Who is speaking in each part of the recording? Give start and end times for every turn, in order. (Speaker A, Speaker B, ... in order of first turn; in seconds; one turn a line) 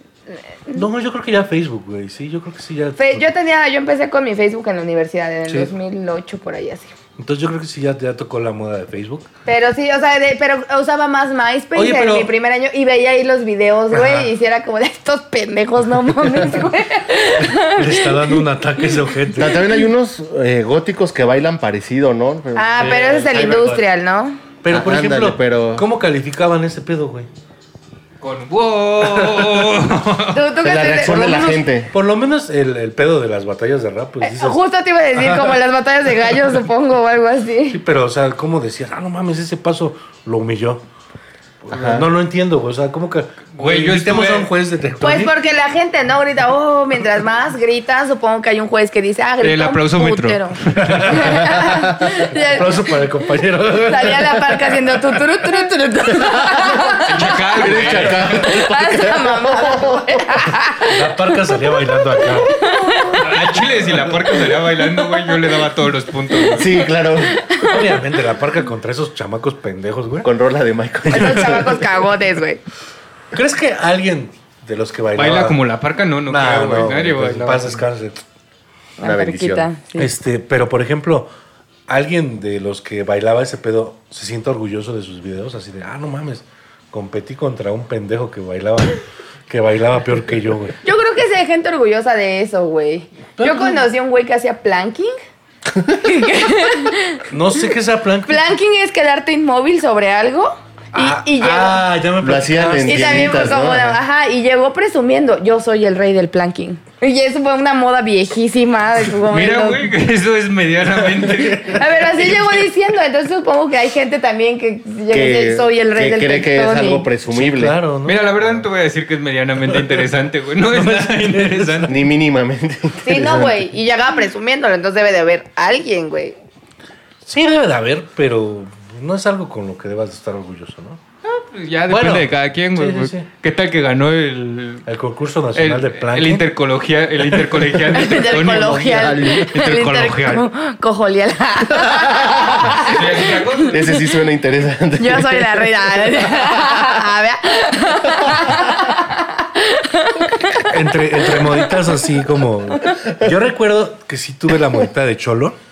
Speaker A: 0.7-3.3
Speaker B: 3.0-6.9
Speaker A: 7.2-9.3
Speaker B: 9.4-18.4
Speaker A: 11.7-12.3
Speaker A: 13.9-14.3
Speaker A: 17.4-19.6
Speaker C: 19.3-23.8
Speaker B: 22.5-24.4
Speaker D: 22.8-23.2
Speaker A: 24.6-27.3
Speaker C: 24.7-25.8
Speaker D: 28.2-30.4
Speaker B: 30.3-31.6
Speaker C: 30.6-31.9
Speaker A: 31.9-34.6
Speaker B: 34.2-37.8
Speaker A: 35.2-35.5
Speaker A: 37.7-40.8
Speaker A: 41.6-45.3
Speaker C: 41.7-42.1
Speaker D: 43.5-44.5
Speaker B: 45.0-53.0
Speaker D: 49.4-51.4
Speaker A: 50.8-55.2
Speaker B: 53.7-57.1
Speaker D: 57.0-58.5
Speaker C: 57.6-60.4
Speaker B: 58.1-63.2
Speaker A: 60.8-62.5
Speaker D: 63.1-66.9
Speaker C: 66.5-67.5
Speaker B: 67.2-68.0
Speaker A: 67.6-70.3
Speaker C: 70.2-71.8
Speaker A: 71.0-71.8
Speaker B: 71.1-72.6
Speaker A: 73.3-75.6
Speaker D: 75.1-77.8
Speaker A: 76.3-78.2
Speaker B: 79.0-80.1
Speaker C: 79.0-79.7
Speaker A: 80.0-81.3
Speaker A: 81.9-90.8
Speaker B: 90.8-95.1
Speaker A: 93.4-93.8
Speaker B: 95.9-97.2
Speaker A: 97.3-98.4
Speaker B: 98.2-101.8
Speaker A: 100.9-103.6
Speaker C: 102.2-104.0
Speaker B: 102.8-109.8
Speaker D: 109.3-112.4
Speaker A: 111.3-111.7
Speaker B: 111.7-117.1
Speaker C: 115.1-117.8
Speaker A: 117.3-118.6
Speaker D: 118.0-121.9
Speaker A: 120.7-122.1
Speaker C: 121.9-123.6
Speaker B: 123.0-126.3
Speaker A: 127.2-131.0
Speaker D: 131.2-134.8
Speaker A: 131.9-133.3
Speaker A: 134.8-136.5
Speaker D: 135.5-140.4
Speaker B: 137.9-143.0
Speaker C: 138.2-139.5
Speaker D: 142.8-143.8
Speaker C: 143.7-146.8
Speaker B: 145.0-152.1
Speaker A: 150.7-155.6